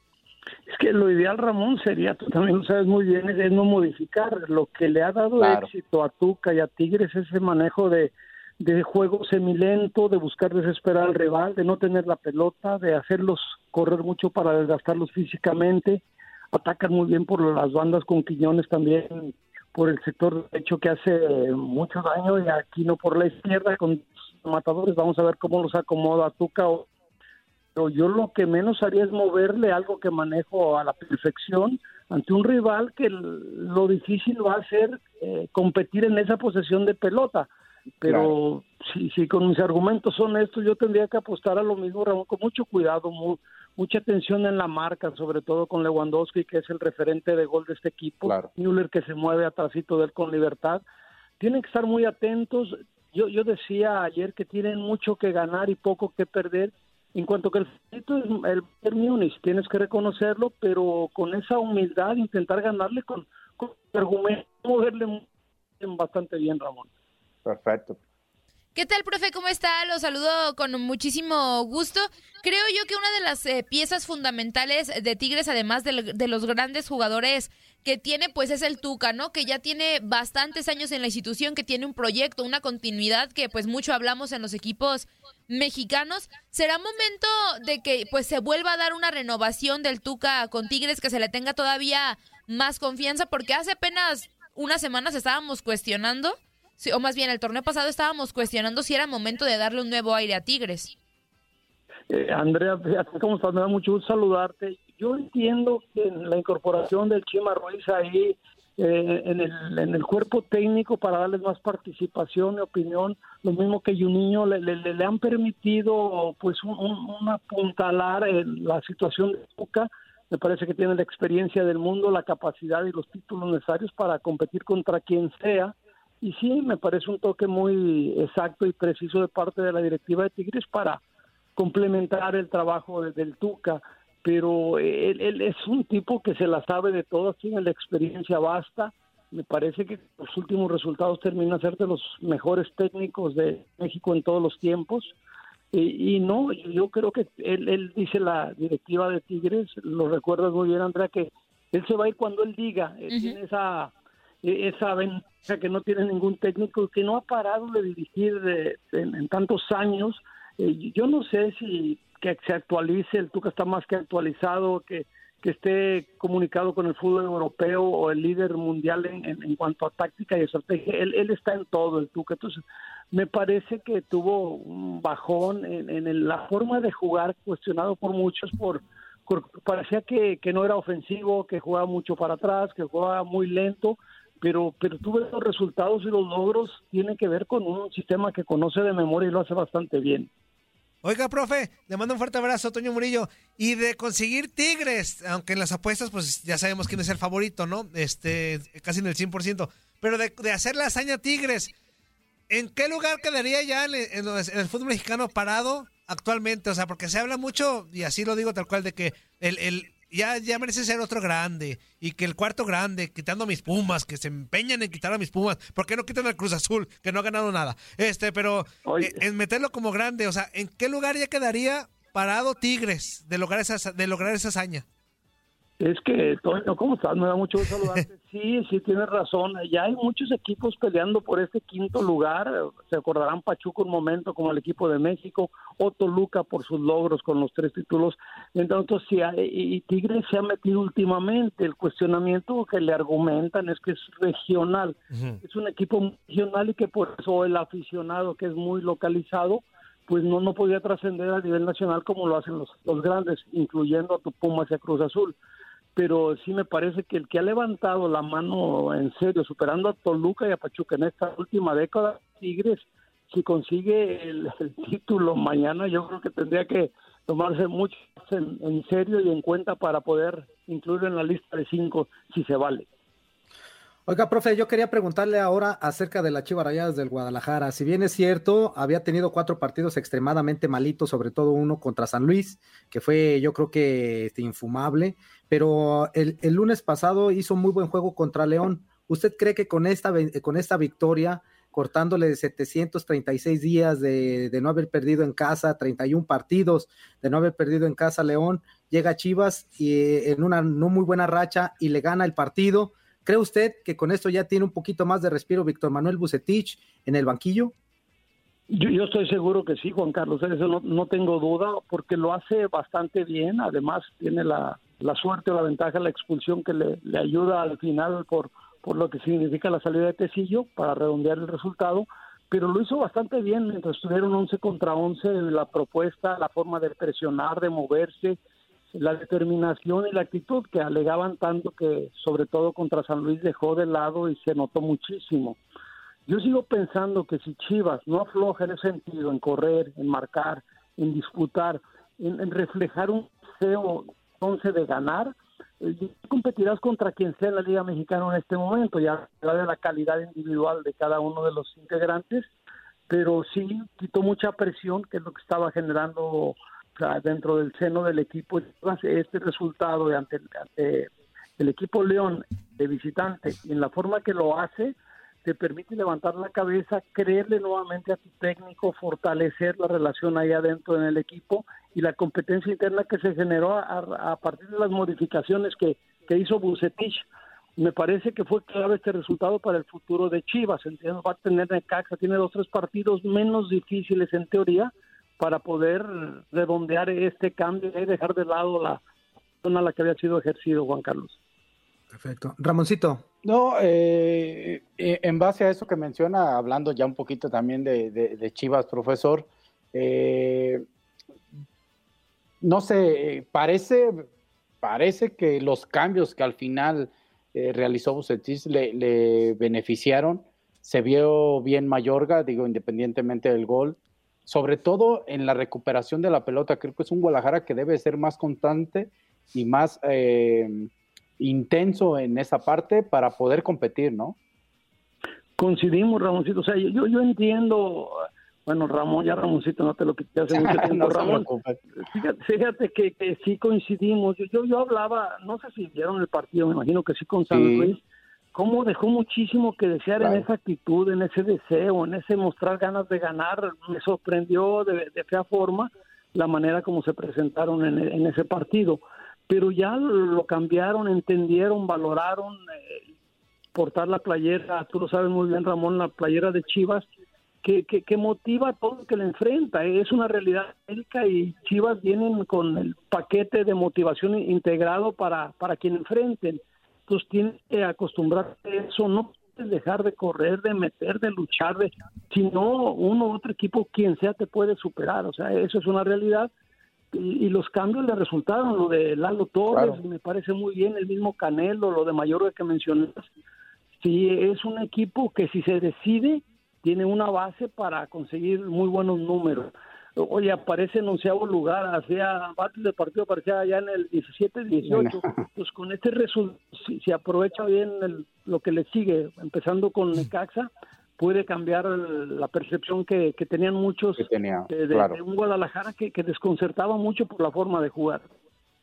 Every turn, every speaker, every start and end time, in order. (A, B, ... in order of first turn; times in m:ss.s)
0:00.7-0:26.9 A
0:05.4-0:05.7 B
0:27.7-0:37.5 A
0:38.0-0:50.8 A
0:38.0-0:38.3 B
0:51.4-1:05.2 A
1:05.8-1:06.9 A
1:07.4-1:08.0 B
1:08.7-1:40.9 C
1:42.1-2:11.0 A
2:11.6-2:25.1 A
2:25.7-3:10.3 A
3:11.0-3:21.7 D
3:22.5-3:44.8 D
3:38.8-3:39.2 A
3:45.8-4:15.4 A
4:16.0-4:32.9 A
4:34.1-5:07.7 E
5:08.7-5:28.4 A
5:28.9-5:35.6 A
5:36.3-5:52.5 A
5:53.1-6:17.2 A
6:17.8-6:29.0 A
6:29.6-6:31.4 A
6:32.1-6:33.2 E
6:33.4-6:40.8 B
6:42.6-6:44.2 B
6:44.8-7:04.4 B
7:05.6-7:11.5 A
7:10.5-7:11.8 B
7:12.0-7:18.0 A
7:17.5-7:17.9 B
7:18.5-7:32.9 A
7:20.2-7:20.5 B
7:33.7-7:37.0 A
7:37.6-7:56.5 A
7:57.1-8:03.2 A
7:59.7-8:00.0 B
8:04.0-8:28.3 A
8:14.9-8:15.3 B
8:24.2-8:25.2 B